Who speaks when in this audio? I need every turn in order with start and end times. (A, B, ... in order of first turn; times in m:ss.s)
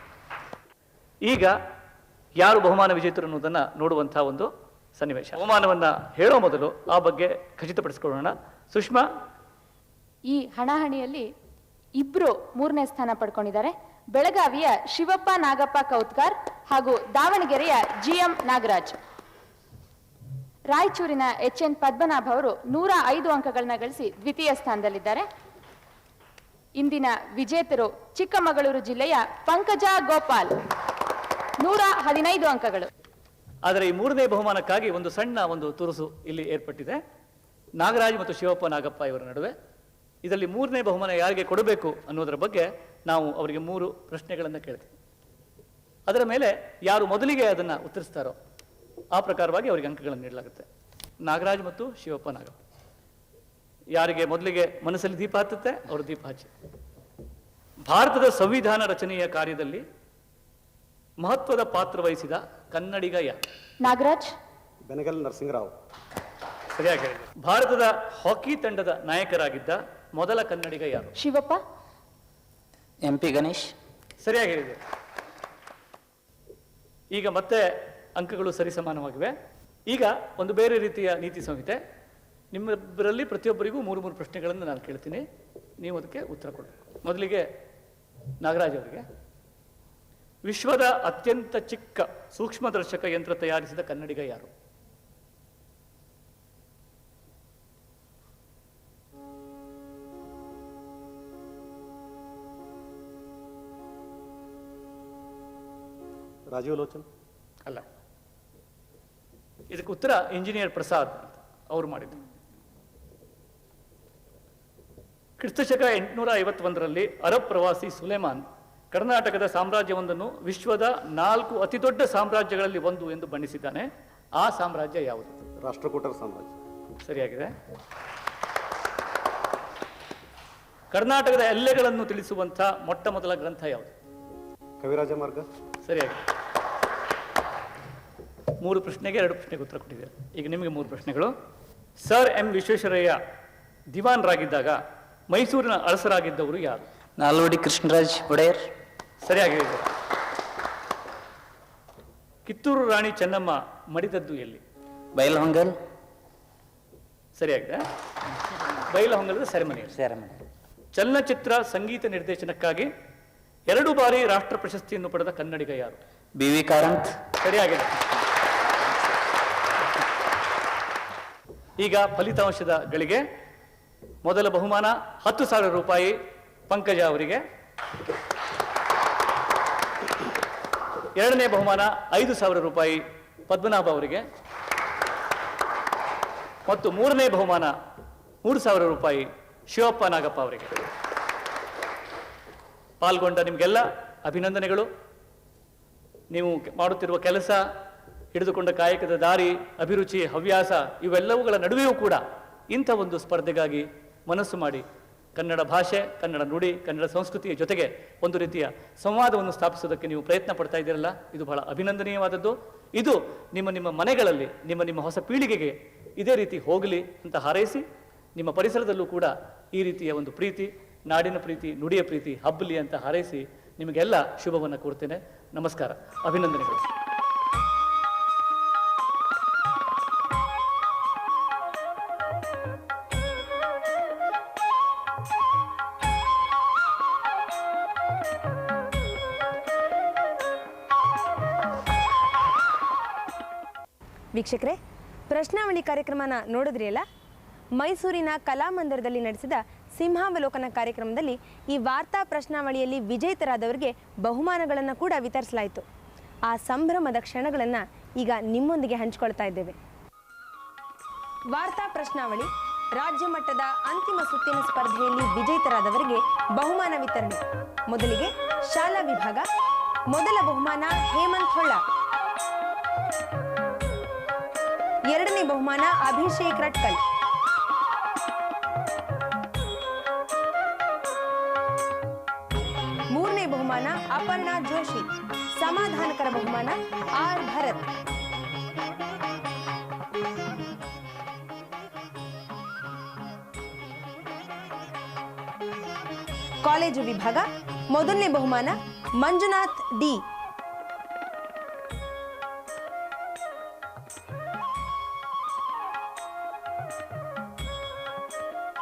0:01.2-0:01.6 A
0:02.4-0:09.1 A
0:10.3-0:11.3 B
0:12.0-0:19.0 B
0:20.7-0:25.3 B
0:26.8-0:30.6 B
0:31.6-0:32.9 B
0:33.6-0:37.0 A
0:37.8-0:39.5 A
0:40.2-0:44.9 A
0:46.1-0:48.4 A
0:49.1-0:50.7 A
0:51.2-0:52.6 A
0:54.0-0:56.5 A
0:57.8-0:59.8 A
1:01.2-1:03.4 A
1:03.8-1:04.3 B
1:04.9-1:05.7 C
1:06.8-1:11.1 A
1:11.2-1:11.6 B
1:13.0-1:13.7 D
1:14.2-1:14.8 A
1:17.1-1:17.6 A
1:18.2-1:19.3 A
1:19.9-1:21.8 A
1:22.5-1:25.2 A
1:25.8-1:27.5 A
1:28.4-1:29.1 A
1:30.5-1:34.5 A
1:46.5-1:47.1 C
1:49.7-1:52.2 A
1:55.4-2:05.4 A
2:05.6-2:06.6 C
2:07.0-2:07.5 A
2:10.9-2:13.9 A
2:14.8-2:15.5 C
2:15.8-2:16.2 A
2:18.6-2:21.3 A
2:22.0-2:23.2 A
2:23.9-2:24.8 A
2:25.3-2:26.9 A
2:27.2-2:28.7 D
2:29.2-2:29.9 A
2:32.5-2:34.6 A
2:35.2-2:35.7 D
2:37.4-2:37.8 A
2:38.9-2:40.0 A
2:39.9-2:40.4 D
2:40.9-2:42.9 A
2:43.7-2:46.0 A
2:46.4-2:47.2 D
2:47.4-2:48.0 A
2:51.8-2:53.2 A
2:54.2-2:56.2 A
2:56.7-2:57.4 A
3:01.2-3:04.2 A
3:06.7-3:07.7 A
3:08.4-3:10.8 A
3:13.0-3:14.9 A
3:16.3-3:17.6 A
3:18.3-3:37.8 A
3:38.4-3:46.9 A
4:04.3-4:04.8 E
4:05.3-4:07.0 E
4:07.8-4:15.8 E
4:16.5-4:19.8 E
4:21.5-4:29.5 E
4:30.1-4:31.8 E
4:35.1-4:37.0 E
4:43.1-4:47.9 E
4:56.6-5:00.2 E